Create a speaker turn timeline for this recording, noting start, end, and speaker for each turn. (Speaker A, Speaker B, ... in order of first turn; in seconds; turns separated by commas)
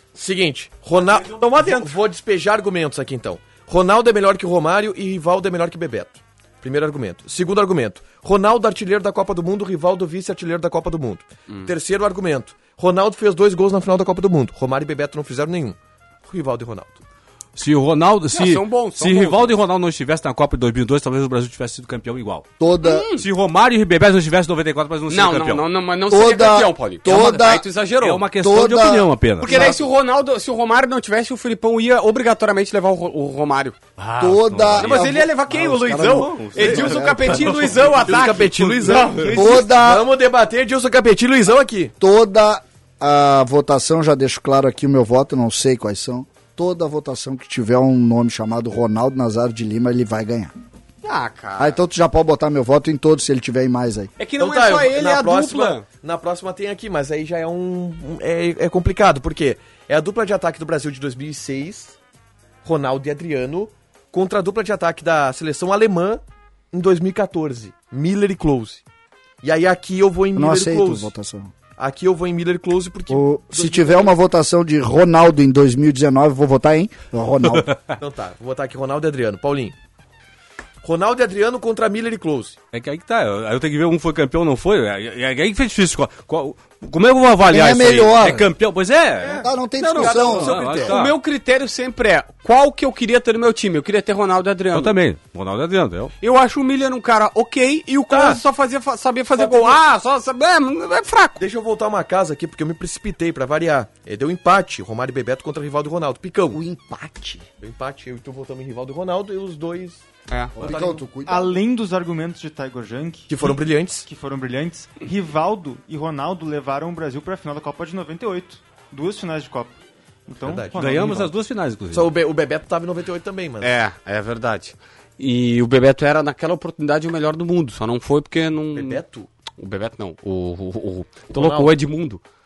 Speaker A: 0.1-17.0, Speaker B: 1.2-1.9, Speaker C: 17.6-22.5, Speaker B: 18.3-19.6, Speaker D: 22.6-23.1, Speaker B: 22.8-23.2, Speaker C: 23.2-25.7, Speaker B: 25.1-28.2, Speaker D: 26.1-27.7, Speaker C: 28.0-29.8, Speaker D: 28.4-29.8, Speaker B: 29.4-33.8, Speaker C: 34.0-35.1, Speaker D: 34.2-37.7, Speaker B: 34.8-39.6, Speaker C: 36.2-39.3, Speaker A: 38.0-41.9, Speaker D: 39.3-40.1, Speaker D: 42.0-50.5, Speaker B: 51.0-51.8, Speaker D: 51.6-54.1, Speaker B: 54.2-55.9, Speaker A: 54.4-62.0, Speaker A: 62.6-68.8, Speaker A: 69.4-71.1, Speaker D: 70.3-71.5, Speaker A: 71.8-74.1, Speaker D: 73.1-77.8, Speaker A: 78.0-79.8, Speaker A: 80.8-82.6, Speaker C: 82.7-89.5, Speaker D: 87.5-88.5, Speaker B: 89.3-95.0, Speaker D: 89.3-90.6, Speaker A: 90.0-91.0, Speaker C: 90.2-91.2, Speaker C: 94.7-96.1, Speaker B: 96.2-101.4, Speaker A: 98.1-98.4, Speaker A: 99.4-99.8, Speaker A: 101.4-106.6, Speaker D: 106.5-107.5, Speaker A: 107.6-110.0, Speaker D: 110.6-111.5, Speaker A: 110.6-111.1, Speaker E: 111.2-121.3, Speaker A: 113.3-114.1, Speaker A: 120.4-121.1, Speaker C: 120.8-122.1, Speaker A: 121.9-123.7, Speaker B: 123.6-129.0, Speaker A: 128.7-129.3, Speaker B: 129.6-132.2, Speaker A: 131.3-131.8